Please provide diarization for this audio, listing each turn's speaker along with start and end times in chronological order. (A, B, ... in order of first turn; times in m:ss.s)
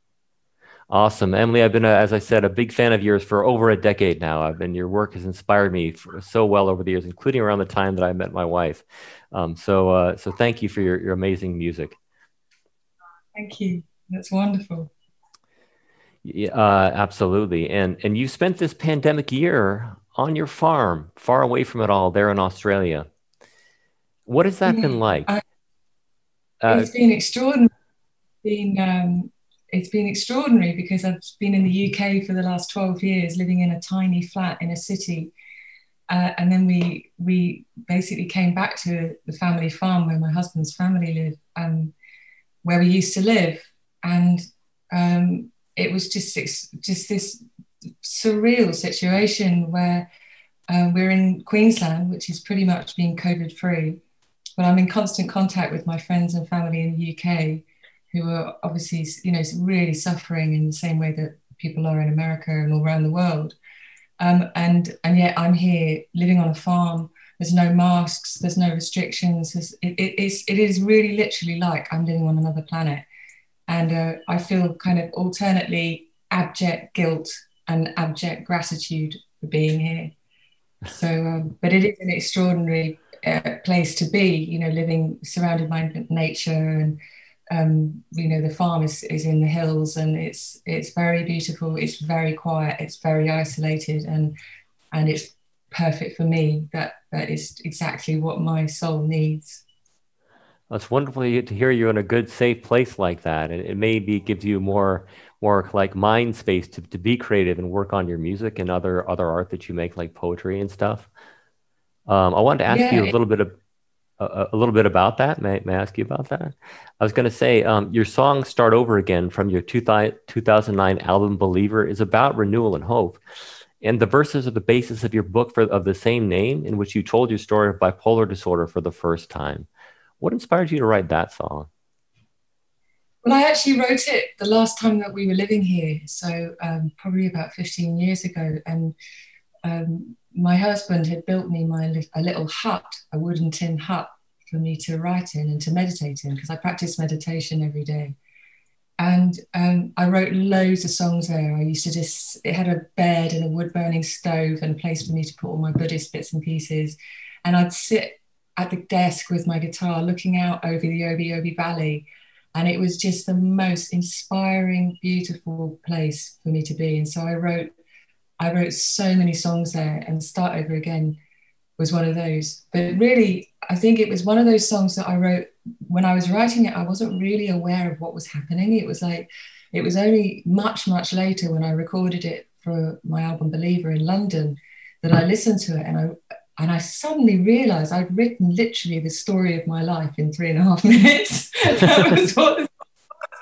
0:00.9-0:11.9 A
0:13.3-0:14.9 B
0:16.2-0:23.1 A
0:24.3-0:25.3 A
0:24.6-0:25.4 B
0:26.6-0:26.9 A
0:26.7-0:27.7 B
0:28.4-0:35.3 B
0:36.1-0:41.9 B
0:42.6-0:47.4 B
0:48.0-0:50.1 B
0:50.7-0:54.0 B
0:54.6-1:03.6 B
1:04.2-1:13.0 B
1:13.7-1:20.1 B
1:20.9-1:27.0 B
1:27.5-1:34.3 B
1:34.9-1:39.6 B
1:40.7-1:51.1 A
1:52.1-1:53.5 A
1:52.7-1:53.1 B
1:54.2-2:03.2 A
2:03.8-2:09.7 A
2:10.2-2:11.7 A
2:13.2-2:18.9 B
2:19.6-2:28.2 B
2:29.0-2:47.7 B
2:48.4-2:51.2 B
2:51.8-3:12.7 B